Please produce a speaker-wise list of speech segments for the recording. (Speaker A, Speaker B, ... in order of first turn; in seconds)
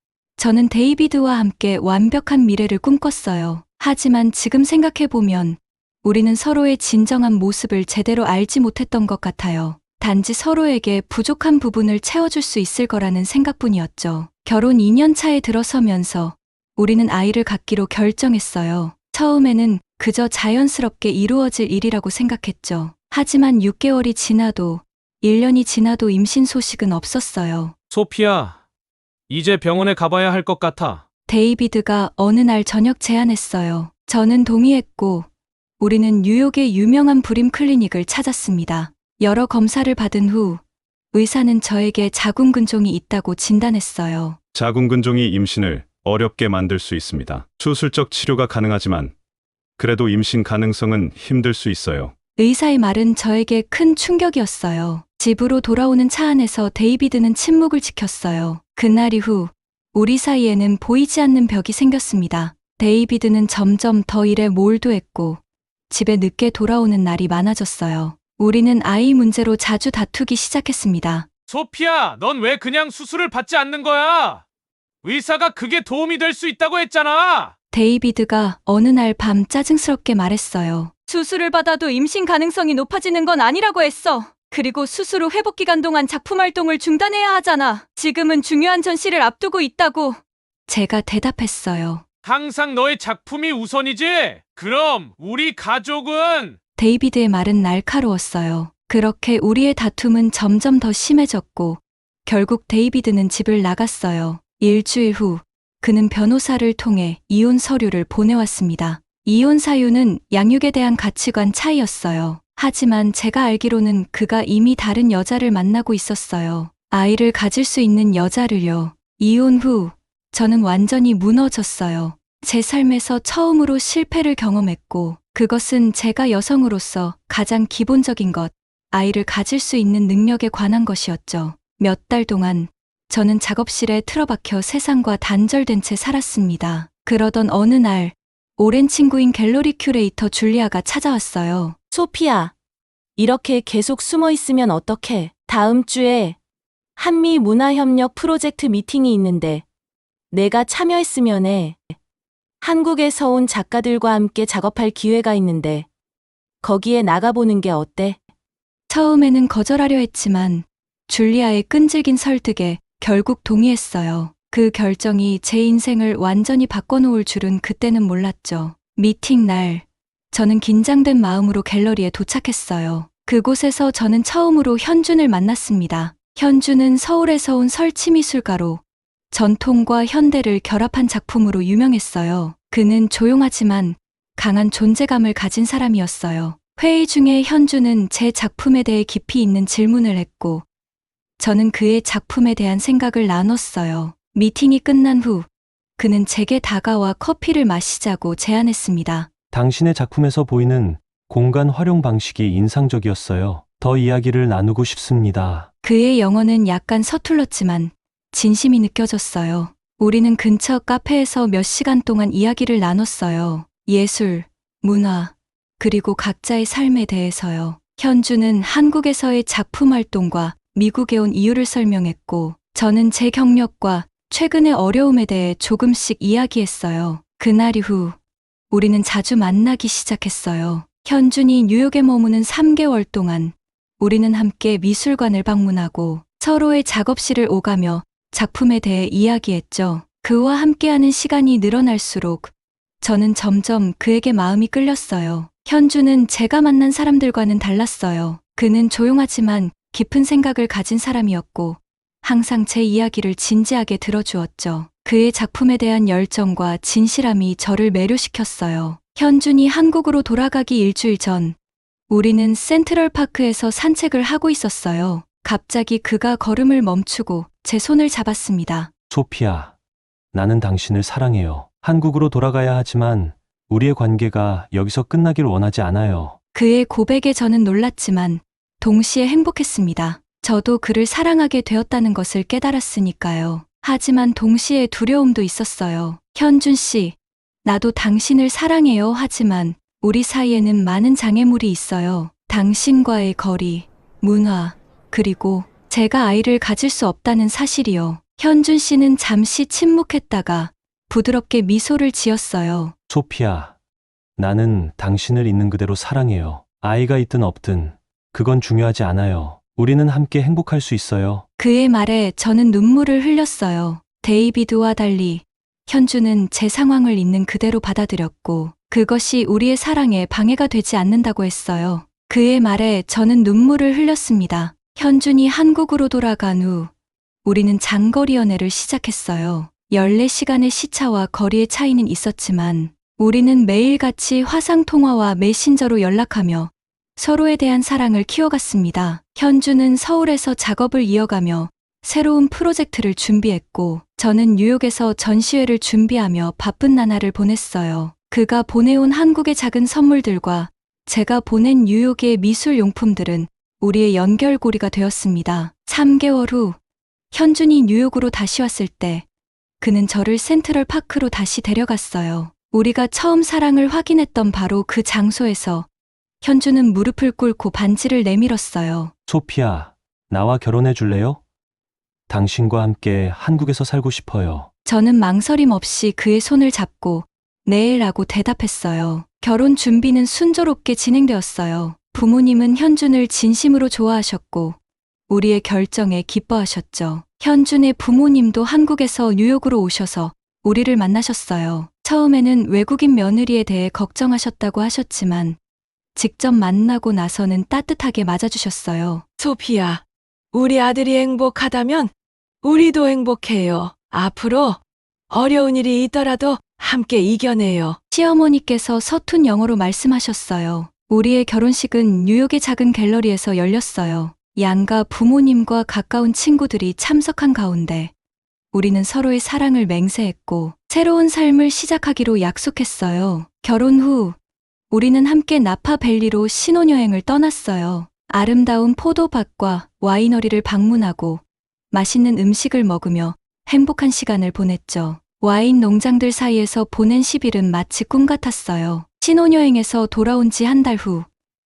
Speaker A: 0.4-27.7, 31.3-35.3, 35.8-40.6, 41.1-44.4, 52.4-71.3, 77.7-92.0, 96.8-141.8, 158.9-190.6, 191.4-195.5, 196.0-199.3, 205.8-228.2, 228.7-261.5, 262.1-268.9, 276.5-302.9, 311.6-326.9, 327.4-356.8, 357.3-359.2, 359.8-365.9, 366.4-369.1, 374.8-384.8, 385.3-395.6, 396.1-399.2, 408.1-418.1, 418.7-424.4, 424.9-441.3
Speaker B: 27.9-28.6, 29.3-31.0, 71.5-74.4, 75.0-77.5, 92.2-96.5
Speaker C: 44.5-49.1, 49.8-52.1
Speaker D: 141.9-142.5, 143.2-146.4, 147.0-149.6, 150.3-151.9, 152.6-155.9, 156.6-158.2
Speaker E: 199.5-205.7, 269.1-269.7, 270.3-276.4, 303.1-303.7, 304.4-311.4, 369.3-371.4, 372.3-374.7
Speaker F: 399.4-408.0